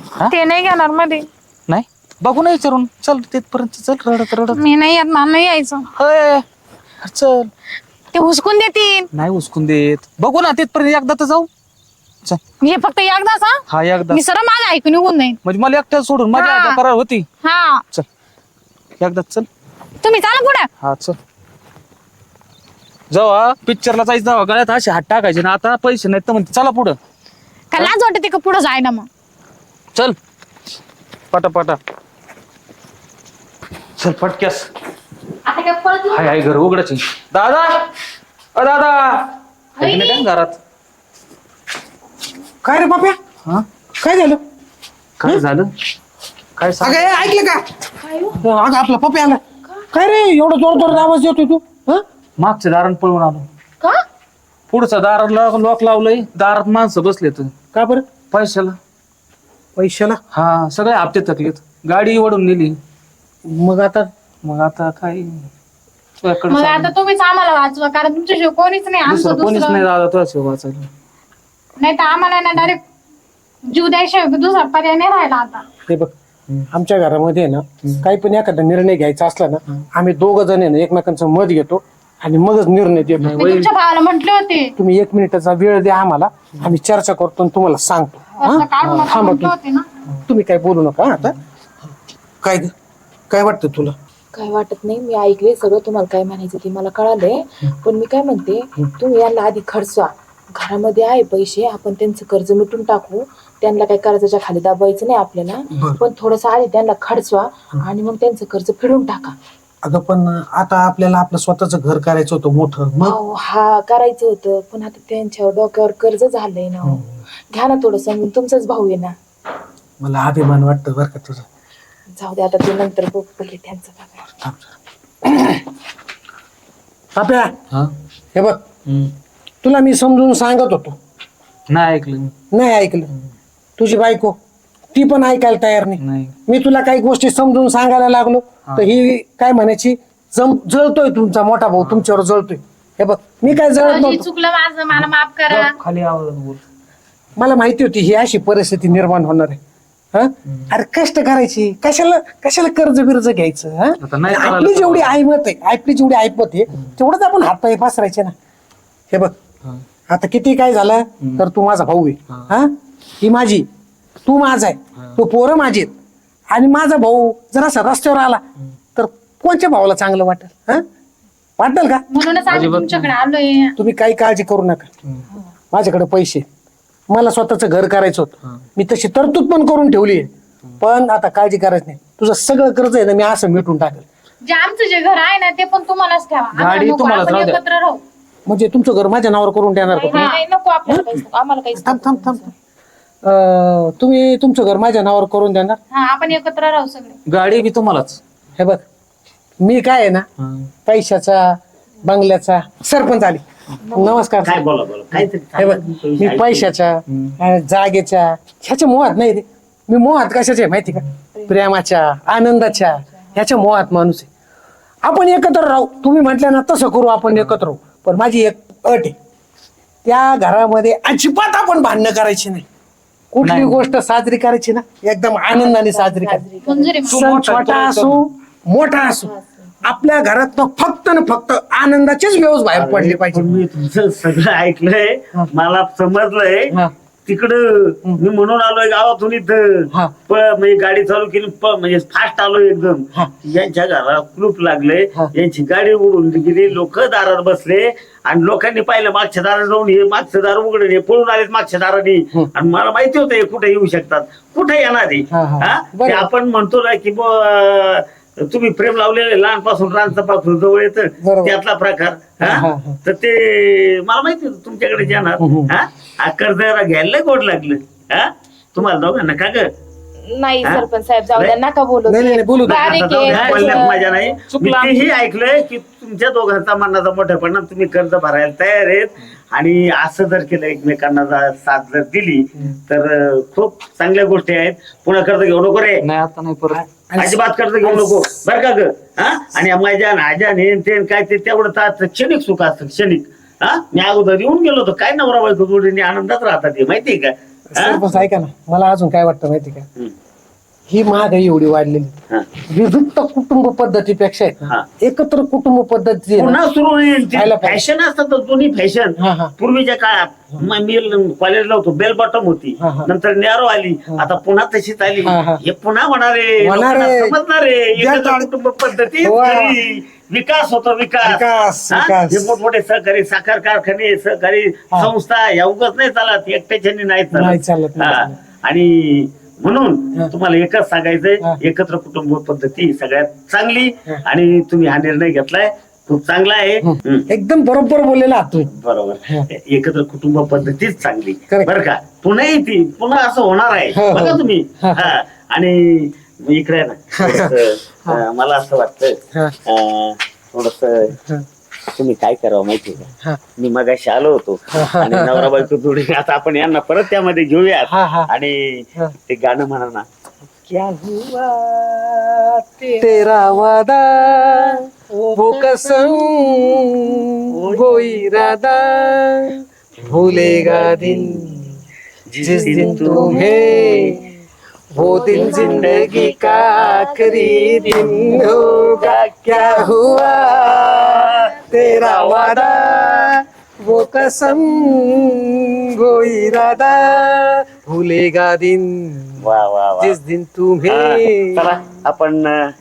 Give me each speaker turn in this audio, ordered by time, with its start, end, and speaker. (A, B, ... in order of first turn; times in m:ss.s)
0:00.3-0:01.3 A
0:01.7-0:04.6 B
0:04.5-0:05.9 A
0:06.0-0:06.4 B
0:07.0-0:07.5 B
0:08.1-0:09.1 A
0:09.1-0:11.5 B
0:12.6-0:15.4 A
0:13.7-0:14.2 B
0:15.4-0:17.3 B
0:16.3-0:16.8 A
0:17.4-0:17.8 A
0:19.0-0:19.5 B
0:20.0-0:20.7 A
0:20.8-0:21.2 B
0:23.1-0:27.0 B
0:27.7-0:29.1 A
0:31.3-0:31.8 B
0:34.0-0:34.7 B
0:35.5-0:36.3 A
0:36.1-0:37.8 B
0:38.6-0:39.3 B
0:39.8-0:40.6 B
0:39.8-0:40.2 A
0:42.6-0:43.2 C
0:44.0-0:44.4 C
0:45.2-0:45.7 B
0:46.6-0:47.3 B
0:46.8-0:47.6 C
0:48.0-0:48.4 D
0:48.4-0:49.4 C
0:49.9-0:52.0 C
0:52.4-0:53.5 B
0:54.7-0:57.5 B
0:57.7-0:58.1 C
0:58.3-0:58.8 B
0:59.8-1:00.2 C
1:00.3-1:02.8 B
1:03.5-1:04.1 C
1:04.4-1:05.4 B
1:06.2-1:06.9 B
1:06.5-1:09.9 A
1:09.0-1:10.9 B
1:11.8-1:12.8 A
1:13.7-1:15.6 A
1:15.9-1:16.1 C
1:16.7-1:23.5 C
1:23.2-1:23.7 B
1:23.4-1:24.7 A
1:24.8-1:29.6 C
1:28.4-1:29.9 A
1:30.3-1:31.4 C
1:32.4-1:32.7 C
1:33.3-1:34.0 C
1:34.3-1:49.4 D
1:45.7-1:46.0 C
1:49.8-1:53.2 C
1:53.0-1:57.0 D
1:56.8-1:57.1 C
1:57.5-1:59.1 D
2:00.0-2:01.5 C
2:02.2-2:04.3 D
2:05.2-2:05.6 C
2:07.2-2:07.5 C
2:08.4-2:08.6 C
2:08.9-2:09.1 B
2:09.6-2:11.0 C
2:11.7-2:12.3 B
2:12.5-2:13.1 C
2:13.8-2:14.4 C
2:14.9-2:24.3 C
2:16.0-2:16.3 B
2:21.8-2:22.1 B
2:23.8-2:25.7 A
2:24.9-2:26.6 B
2:27.4-2:29.6 C
2:30.1-2:38.3 C
2:34.0-2:35.2 B
2:40.1-2:43.7 C
2:44.3-2:45.9 C
2:46.5-2:48.4 C
2:49.0-2:50.8 C
2:51.6-2:52.0 C
2:52.1-2:53.7 A
2:52.5-2:53.1 B
2:53.8-2:54.9 C
2:55.7-2:56.4 C
2:57.1-3:00.3 C
3:00.8-3:04.1 C
3:04.5-3:08.0 A
3:06.5-3:07.6 B
3:08.5-3:10.3 C
3:09.8-3:12.5 D
3:10.1-3:10.4 A
3:11.8-3:12.4 C
3:13.2-3:15.8 C
3:15.9-3:17.2 A
3:17.3-3:18.2 B
3:18.6-3:18.8 C
3:19.6-3:20.2 C
3:20.4-3:20.7 B
3:20.9-3:24.6 C
3:24.4-3:26.7 E
3:25.6-3:34.3 C
3:27.1-3:27.4 B
3:35.0-3:39.2 C
3:40.0-3:42.7 C
3:43.3-3:46.4 C
3:43.4-3:43.8 B
3:45.5-3:47.2 D
3:46.6-3:47.5 A
3:47.0-3:49.3 C
3:47.3-3:48.2 B
3:49.0-3:49.7 D
3:49.8-3:53.6 C
3:52.7-3:56.7 E
3:57.3-4:29.7 E
4:15.3-4:16.3 C
4:21.2-4:21.6 C
4:22.4-4:23.0 C
4:25.4-4:25.7 C
4:30.3-4:34.3 D
4:32.1-4:33.1 C
4:32.6-4:46.0 E
4:33.3-4:33.9 B
4:34.5-4:35.1 B
4:46.0-4:46.8 B
4:46.7-4:48.2 C
4:47.2-4:58.0 E
4:57.7-4:59.9 C
5:00.9-5:02.2 C
5:02.7-5:06.6 C
5:06.4-5:37.3 E
5:07.3-5:07.9 C
5:09.2-5:09.6 C
5:12.8-5:13.1 C
5:15.2-5:15.6 C
5:16.6-5:17.3 C
5:18.0-5:18.5 C
5:19.2-5:19.8 C
5:21.2-5:22.6 C
5:27.3-5:28.4 C
5:36.8-5:38.7 C
5:38.8-5:51.2 E
5:41.5-5:41.7 C
5:43.9-5:45.2 C
5:47.2-5:48.2 C
5:52.0-5:58.6 E
5:54.8-5:55.5 C
5:57.9-5:58.3 C
5:59.3-6:00.1 E
6:03.0-6:04.8 C
6:05.3-6:11.7 C
6:07.5-6:07.9 E
6:10.5-6:11.2 E
6:12.3-6:13.9 E
6:12.4-6:14.2 C
6:12.7-6:14.2 D
6:15.0-6:29.5 C
6:15.0-6:18.3 D
6:15.3-6:16.8 E
6:18.1-6:23.3 E
6:29.4-6:30.2 E
6:30.0-6:31.7 C
6:30.9-6:32.5 E